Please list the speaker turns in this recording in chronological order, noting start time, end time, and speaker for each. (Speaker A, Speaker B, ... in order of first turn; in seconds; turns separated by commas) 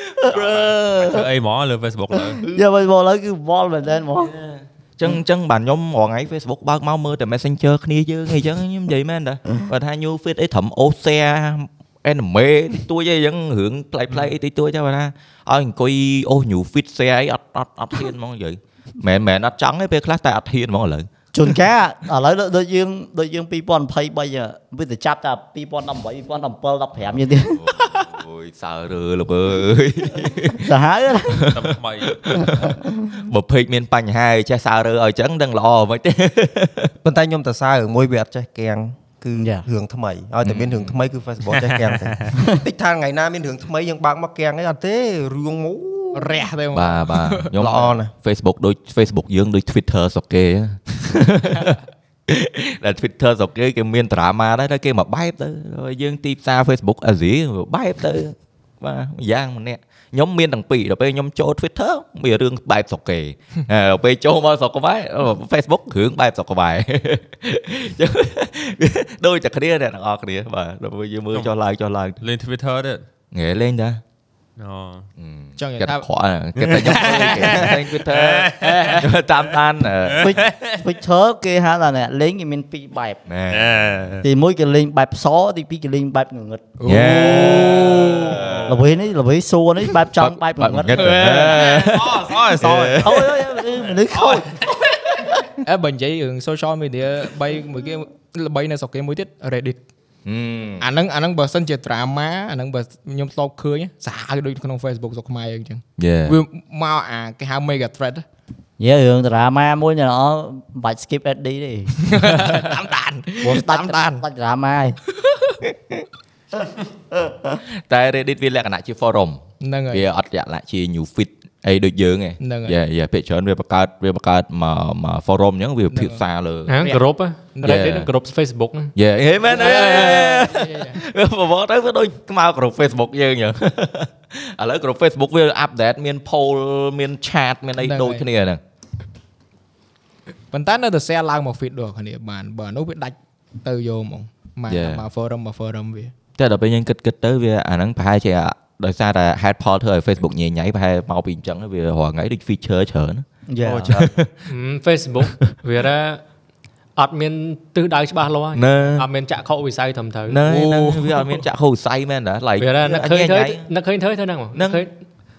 Speaker A: 0.2-1.2, Speaker B: 0.3-2.4, Speaker A: 2.4-4.3, Speaker C: 4.3-21.1, Speaker A: 21.3-27.6, Speaker C: 27.6-30.7, Speaker A: 30.6-31.5, Speaker C: 31.3-36.9, Speaker B: 31.5-32.4, Speaker A: 32.6-32.9, Speaker D: 37.0-46.4, Speaker A: 39.3-39.7, Speaker C: 40.4-40.9, Speaker B: 41.8-42.1, Speaker A: 42.4-42.6, Speaker E: 46.1-47.5, Speaker C: 46.7-72.2, Speaker D: 47.6-48.1, Speaker B: 72.2-73.0, Speaker C: 73.3-74.0, Speaker B: 74.6-75.1, Speaker C: 75.2-80.3, Speaker E: 75.6-76.1, Speaker B: 76.8-79.2, Speaker E: 77.1-77.4, Speaker B: 80.0-80.8, Speaker A: 80.2-83.2, Speaker C: 83.3-83.9, Speaker B: 83.5-84.2, Speaker A: 84.2-86.7, Speaker E: 86.8-88.4, Speaker C: 86.8-88.7, Speaker B: 87.6-88.8, Speaker A: 88.7-91.3, Speaker C: 90.2-93.3, Speaker B: 91.0-93.4, Speaker E: 91.1-91.5, Speaker A: 93.0-94.5, Speaker B: 94.1-94.5, Speaker E: 95.6-99.8, Speaker C: 100.2-100.8, Speaker E: 100.8-108.2, Speaker C: 106.0-106.4, Speaker A: 108.8-112.0, Speaker E: 112.0-112.8, Speaker C: 112.2-114.2, Speaker A: 113.4-115.0, Speaker C: 115.3-116.0, Speaker C: 117.6-126.7, Speaker E: 119.6-120.0, Speaker E: 122.4-122.8, Speaker E: 125.9-126.2, Speaker F: 126.7-128.9, Speaker E: 126.8-127.9, Speaker C: 127.6-128.1, Speaker C: 128.9-138.6, Speaker E: 129.4-131.0, Speaker E: 137.8-138.2, Speaker E: 140.5-146.1, Speaker C: 144.7-145.0, Speaker C: 146.4-153.2, Speaker A: 153.5-154.0, Speaker D: 153.6-154.1, Speaker C: 153.8-154.4, Speaker F: 154.5-156.2, Speaker C: 155.3-155.5, Speaker F: 156.9-160.4, Speaker C: 158.5-159.1, Speaker C: 160.3-163.7, Speaker F: 162.6-164.9, Speaker C: 164.5-164.8